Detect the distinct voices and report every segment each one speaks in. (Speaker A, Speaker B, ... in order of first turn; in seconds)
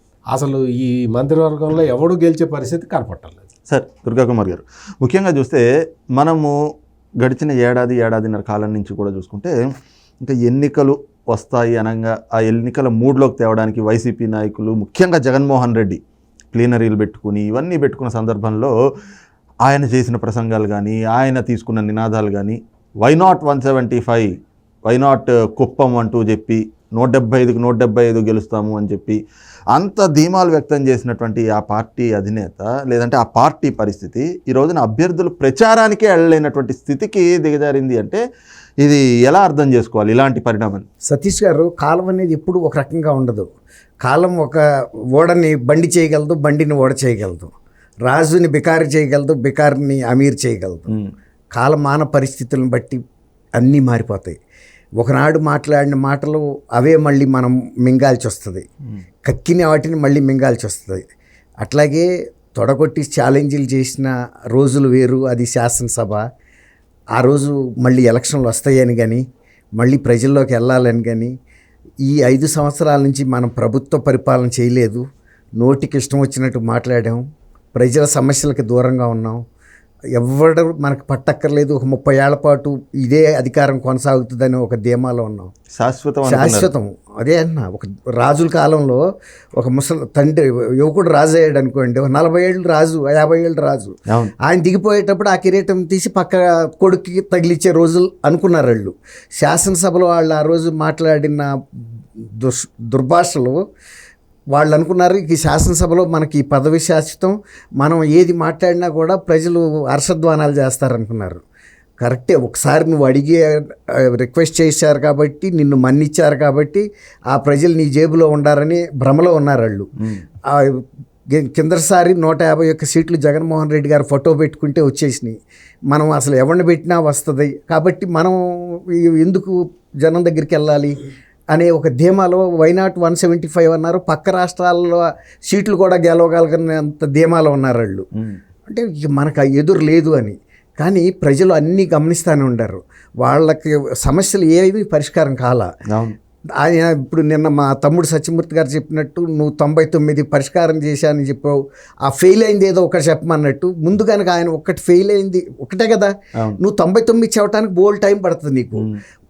Speaker A: 0.3-3.4
Speaker B: 3.7-5.6, 6.2-6.5, 7.2-9.5, 10.2-16.0, 16.5-18.7, 19.6-24.3, 24.9-29.2, 29.7-38.2, 38.8-40.9, 85.8-86.7, 145.9-146.2
Speaker C: 41.1-43.5, 44.0-44.6, 45.1-50.9, 51.5-53.0, 53.6-54.4, 55.0-58.6, 59.2-61.1, 61.6-66.2, 67.2-69.2, 69.8-71.3, 72.1-75.0, 75.6-77.2, 77.8-79.4, 80.2-85.5, 86.3-89.0, 89.6-103.6, 104.5-111.4, 112.0-119.9, 120.5-125.4, 125.9-131.0, 131.5-138.1, 138.7-145.7, 146.6-158.9